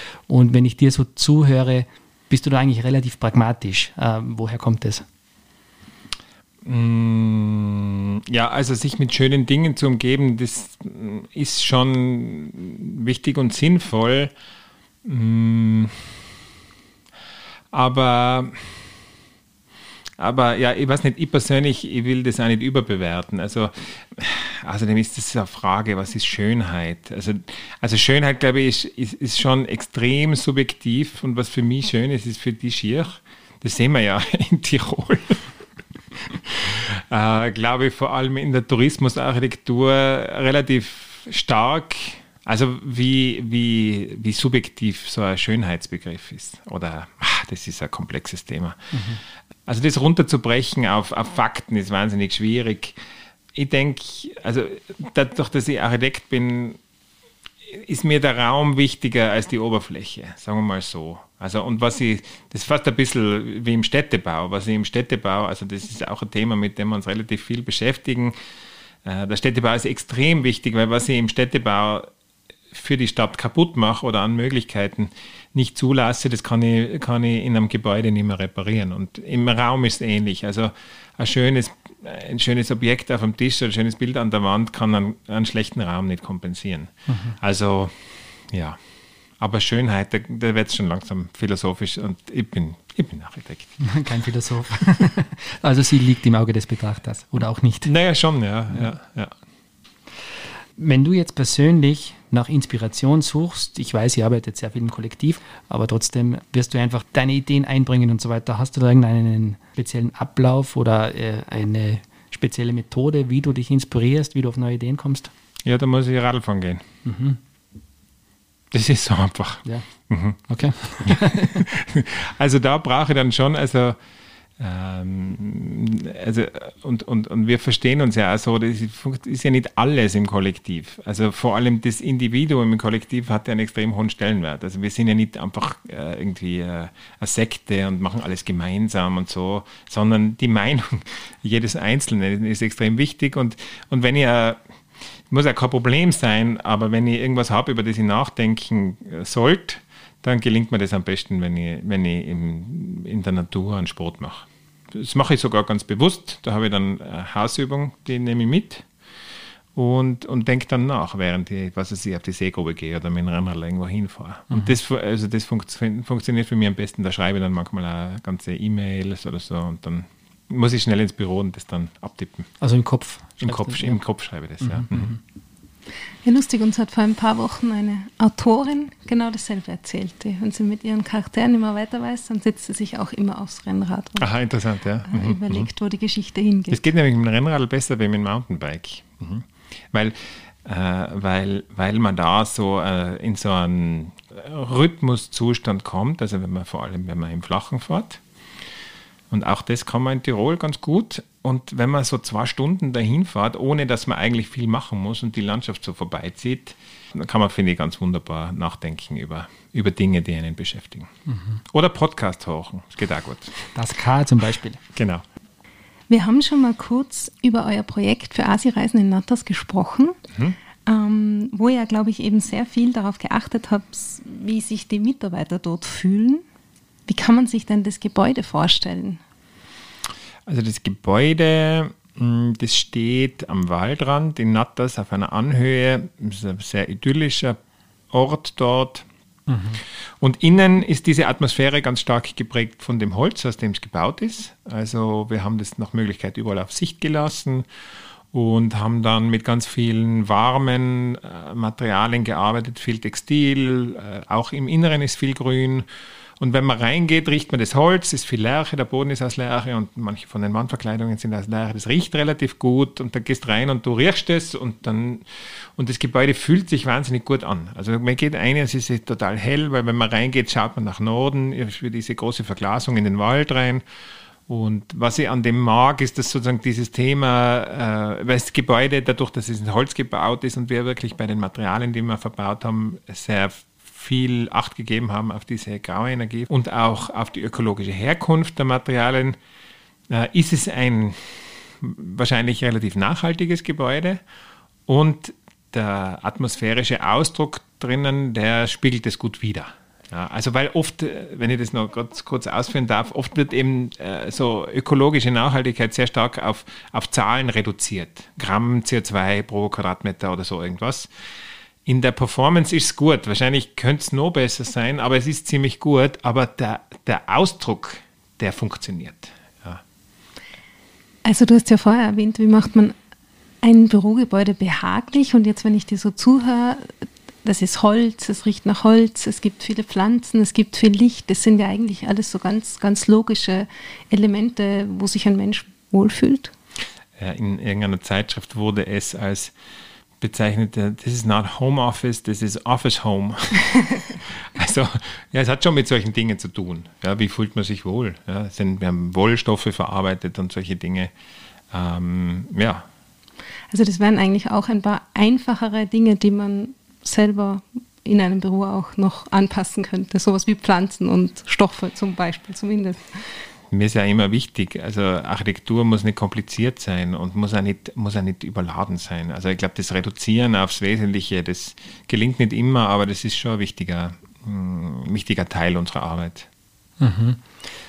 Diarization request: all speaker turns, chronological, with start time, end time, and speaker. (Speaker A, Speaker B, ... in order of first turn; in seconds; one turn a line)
Speaker A: 0.3-5.0
Speaker B: 6.6-14.3
Speaker B: 15.0-16.1
Speaker B: 17.7-18.7
Speaker B: 20.2-35.5
Speaker B: 36.3-48.9
Speaker A: 48.9-49.2
Speaker B: 49.7-53.0
Speaker B: 53.5-56.8
Speaker B: 57.7-68.3
Speaker B: 69.0-72.1
Speaker B: 72.7-88.8
Speaker A: 87.1-87.3
Speaker B: 89.4-93.8
Speaker A: 93.8-97.9
Speaker B: 97.8-99.3
Speaker A: 100.8-115.3
Speaker B: 115.7-116.8
Speaker A: 117.0-117.4
Speaker B: 118.7-120.4
Speaker A: 120.4-121.6
Speaker B: 121.0-124.0
Speaker B: 124.6-144.6
Speaker B: 145.3-158.8
Speaker B: 159.7-172.5
Speaker A: 172.6-174.0
Speaker B: 173.4-175.2
Speaker A: 174.6-175.2
Speaker C: 176.2-184.3
Speaker B: 184.2-185.7
Speaker C: 185.1-186.8
Speaker B: 186.7-198.2
Speaker B: 199.3-211.1
Speaker A: 211.3-211.6
Speaker B: 211.7-213.5
Speaker A: 213.7-214.8
Speaker B: 214.9-215.2
Speaker C: 216.1-220.2
Speaker C: 220.8-226.4
Speaker C: 227.1-229.2
Speaker B: 230.5-237.6
Speaker B: 238.1-239.1
Speaker A: 239.5-239.8
Speaker B: 240.2-247.7
Speaker B: 248.3-255.8
Speaker B: 256.4-265.2
Speaker B: 265.8-273.8
Speaker B: 274.5-289.4
Speaker B: 290.1-294.2
Speaker B: 294.9-311.1
Speaker B: 311.9-319.8
Speaker C: 321.2-322.9
Speaker C: 323.6-326.9
Speaker C: 327.4-336.5
Speaker B: 337.2-339.5
Speaker B: 340.2-351.1
Speaker B: 351.7-352.9
Speaker C: 353.7-363.2
Speaker B: 363.7-376.5
Speaker A: 377.0-377.4